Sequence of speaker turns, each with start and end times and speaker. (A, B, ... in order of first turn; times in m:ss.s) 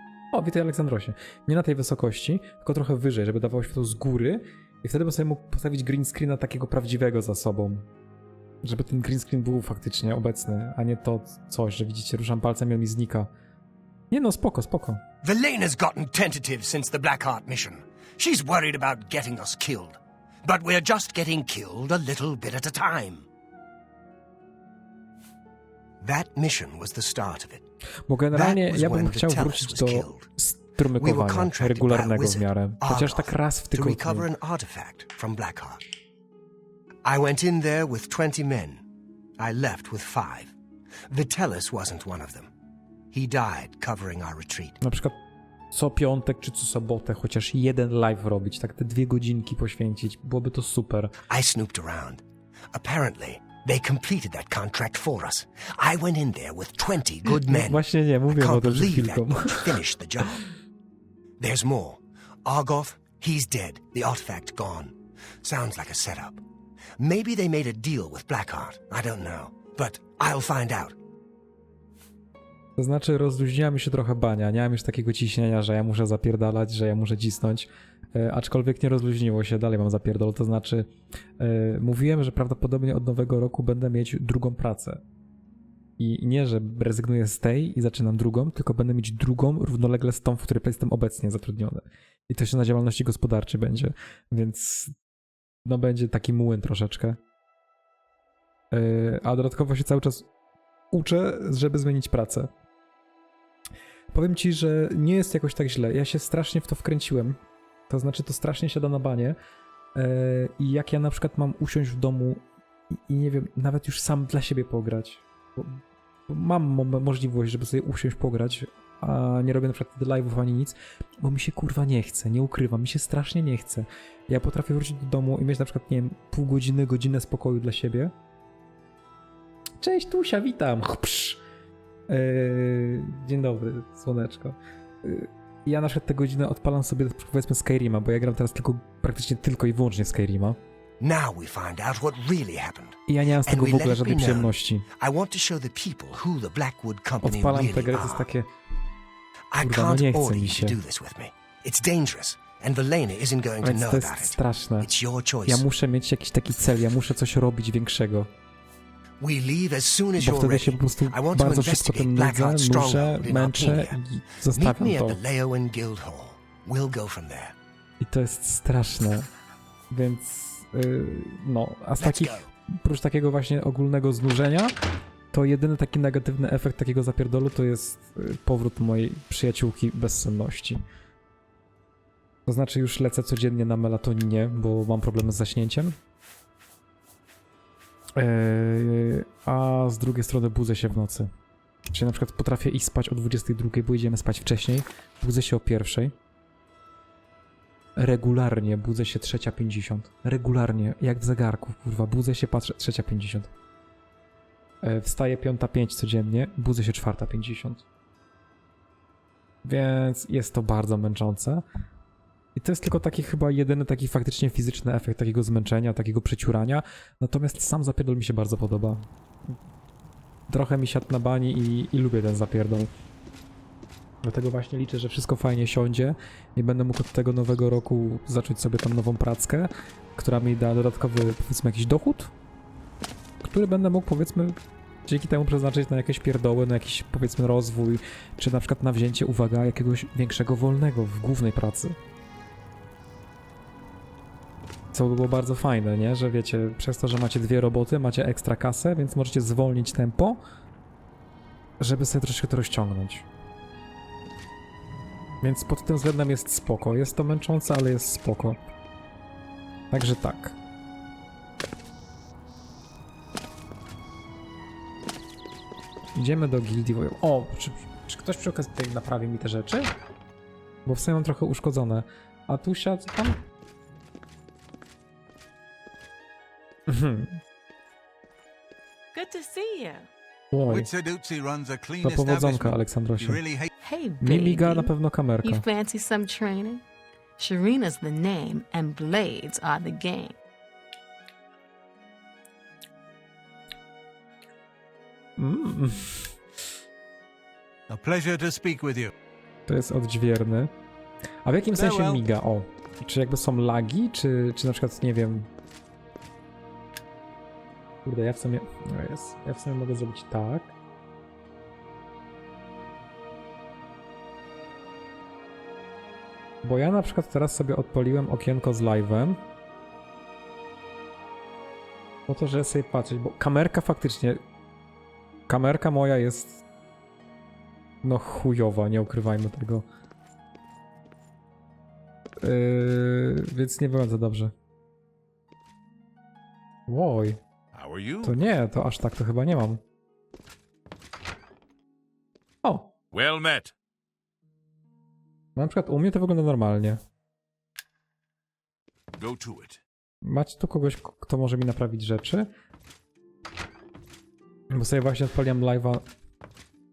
0:00.3-0:07.9 A
0:08.6-0:13.3 A
0:14.1-0:15.0 A
0:15.2-0:23.3 B
0:26.0-0:27.6 B
0:28.1-0:34.3 A
0:28.3-0:30.3 B
0:31.0-0:35.8 B
0:37.0-0:38.8 B
0:39.4-0:40.5 B
0:41.1-0:42.5 B
0:43.1-0:44.8 B
0:44.8-0:45.2 A
0:45.7-0:51.1 A
0:51.3-1:00.4 B
0:57.3-0:59.8 A
1:01.4-1:06.4 B
1:07.0-1:11.0 B
1:12.8-1:25.0 A
1:26.0-1:34.9 A
1:35.6-1:37.2 A
1:38.7-1:40.3 A
1:40.9-1:42.5 A
1:44.1-1:47.4 A
1:47.9-1:49.4 A
1:50.0-2:08.1 A
2:09.8-2:11.4 A
2:12.1-2:20.6 A
2:21.0-2:28.3 B
2:23.1-2:24.8 A
2:27.2-2:28.5 A
2:29.5-2:35.6 B
2:29.6-2:30.8 A
2:33.6-2:34.9 A
2:35.4-2:38.3 A
2:39.2-2:44.0 B
2:40.2-2:45.2 A
2:44.5-2:47.5 B
2:48.0-2:49.3 A
2:49.9-2:54.8 A
2:52.0-2:52.5 B
2:55.3-3:00.8 A
3:02.4-3:06.0 A
3:08.2-3:11.3 A
3:11.9-3:16.1 A
3:18.0-3:23.5 A
3:24.8-3:27.8 A
3:29.6-3:31.6 A
3:32.6-3:39.0 A
3:40.5-3:42.9 A
3:44.2-3:52.3 A
3:53.4-4:02.0 A
4:04.9-4:10.4 A
4:11.8-4:13.2 A
4:15.4-4:18.7 A
4:19.9-4:20.6 A
4:26.1-4:29.9 A
4:30.8-4:33.4 A
4:36.9-4:37.4 A
4:39.1-4:40.1 C
4:40.5-4:40.9 A
4:40.7-4:43.7 D
4:42.0-4:43.4 A
4:43.8-4:46.8 C
4:44.2-4:45.6 A
4:47.4-4:50.4 C
4:55.4-4:56.3 A
4:57.9-4:59.1 D
4:59.7-5:00.7 A
5:01.4-5:05.5 A
5:01.7-5:02.2 D
5:08.0-5:10.7 A
5:16.6-5:19.4 A
5:22.3-5:24.4 A
5:25.5-5:26.6 A
5:28.0-5:29.8 A
5:32.4-5:34.5 A
5:36.9-5:37.4 A
5:37.7-5:38.4 E
5:38.2-5:39.8 A
5:42.6-5:42.9 A
5:43.1-5:43.7 E
5:45.6-5:47.0 A
5:49.2-5:49.8 E
5:50.2-5:52.5 A
5:54.7-5:56.0 A